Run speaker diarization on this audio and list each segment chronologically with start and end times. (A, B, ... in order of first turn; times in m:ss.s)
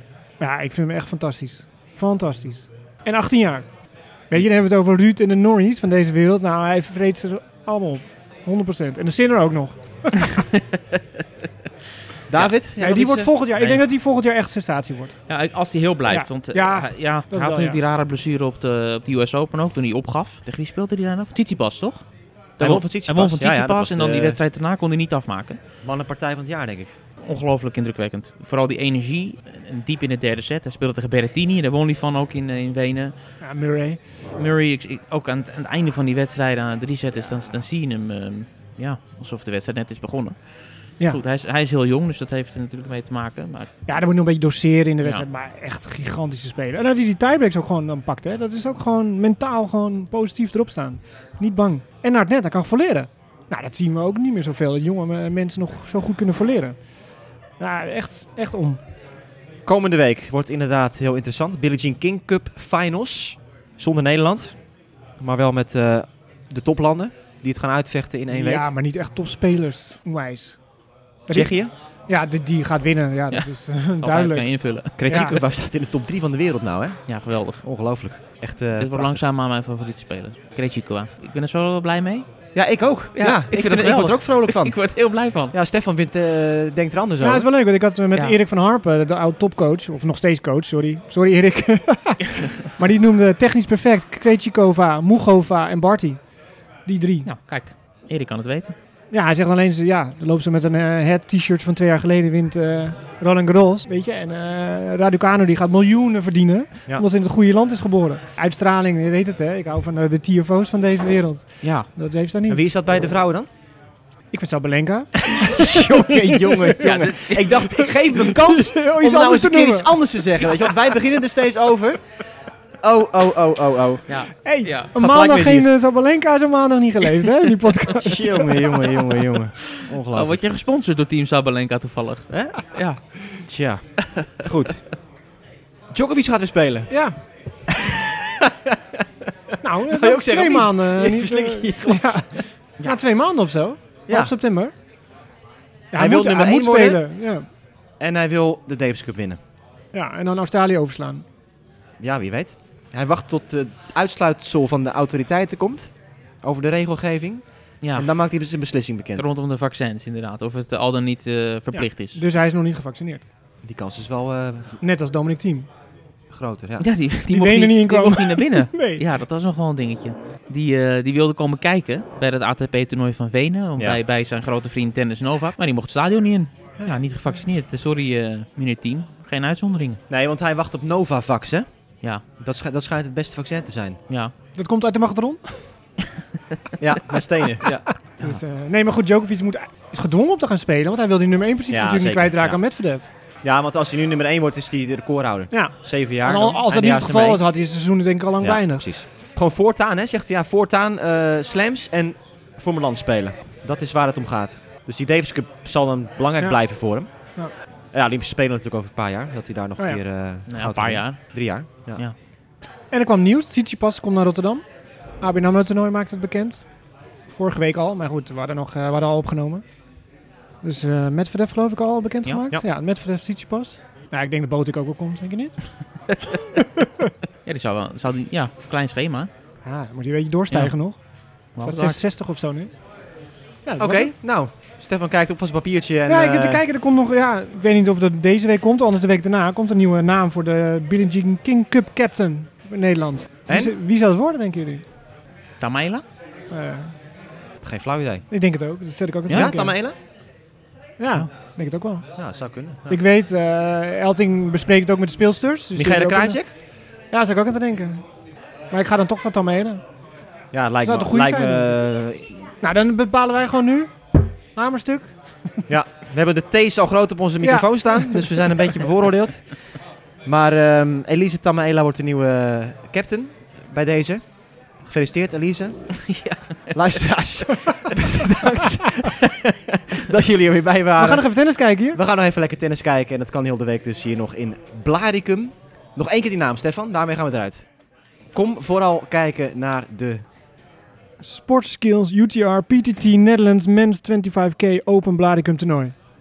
0:00.4-0:03.7 A
0:04.3-0:10.4 A
0:10.3-0:10.6 B
0:12.3-0:13.3 C
0:12.8-0:15.2 A
0:15.3-0:22.0 B
0:16.1-0:17.8 A
0:22.6-0:25.6 B
0:22.6-0:24.4 C
0:25.8-0:26.9 C
0:27.2-0:33.1 B
0:33.4-0:34.0 A
0:34.4-0:43.7 B
0:43.9-0:56.8 A
0:57.6-0:58.8 A
0:59.6-1:04.6 C
1:05.2-1:08.6 C
1:08.3-1:10.6 A
1:11.3-1:15.4 A
1:11.3-1:11.7 C
1:13.3-1:15.3 B
1:15.0-1:17.0 C
1:17.1-1:17.6 B
1:17.6-1:19.2 C
1:18.8-1:22.3 B
1:22.5-1:24.8 C
1:23.1-1:25.5 B
1:25.5-1:27.5 C
1:27.2-1:36.2 A
1:36.8-1:37.3 A
1:37.2-1:38.7 B
1:39.1-1:52.6 A
1:51.6-1:51.9 B
1:52.5-1:53.5 C
1:54.3-2:00.5 A
1:55.2-2:02.0 C
1:56.8-1:57.4 B
2:02.8-2:04.2 C
2:04.1-2:04.9 B
2:04.4-2:08.8 A
2:04.9-2:05.6 C
2:08.0-2:10.4 C
2:10.1-2:13.2 B
2:13.4-2:14.8 C
2:15.9-2:16.9 C
2:16.9-2:17.2 A
2:17.7-2:19.0 C
2:19.6-2:24.7 A
2:19.8-2:22.4 C
2:25.9-2:27.4 A
2:26.0-2:27.0 C
2:28.0-2:29.4 C
2:29.9-2:31.2 A
2:32.0-2:39.3 C
2:37.8-2:38.1 B
2:39.2-2:42.2 B
2:41.7-2:43.2 A
2:43.6-2:44.8 C
2:44.8-2:45.7 A
2:46.3-2:46.8 C
2:46.8-3:00.0 B
2:47.3-2:49.0 A
3:00.1-3:01.7 C
3:02.4-3:04.0 C
3:04.5-3:05.7 A
3:06.8-3:07.8 C
3:07.6-3:13.0 A
3:11.7-3:12.6 C
3:13.4-3:17.4 C
3:15.5-3:18.8 A
3:18.4-3:27.1 C
3:27.9-3:32.0 C
3:30.5-3:32.1 B
3:32.9-3:34.6 A
3:35.2-3:36.6 A
3:37.3-3:39.6 A
3:40.6-3:45.6 A
3:46.6-3:47.1 A
3:47.4-3:49.3 B
3:49.6-3:51.0 A
3:50.5-3:50.8 B
3:51.5-3:52.0 B
3:51.6-3:52.7 A
3:53.6-3:54.1 A
3:53.8-3:56.6 C
3:56.0-4:04.8 A
4:03.5-4:03.7 C
4:05.6-4:06.0 B
4:06.5-4:06.9 A
4:07.6-4:08.2 C
4:08.3-4:09.8 A
4:09.3-4:10.0 C
4:11.0-4:12.1 A
4:12.2-4:13.0 C
4:12.9-4:16.4 A
4:15.8-4:16.5 C
4:17.1-4:18.0 A
4:18.7-4:19.8 A
4:20.5-4:22.4 C
4:20.8-4:21.8 A
4:22.6-4:25.6 A
4:25.7-4:29.6 C
4:27.4-4:28.5 A
4:30.2-4:34.3 C
4:34.8-4:36.2 C
4:36.0-4:36.6 B
4:36.7-4:41.3 C
4:41.0-4:42.0 A
4:41.9-4:47.7 C
4:48.3-4:50.2 C
4:51.2-4:55.9 A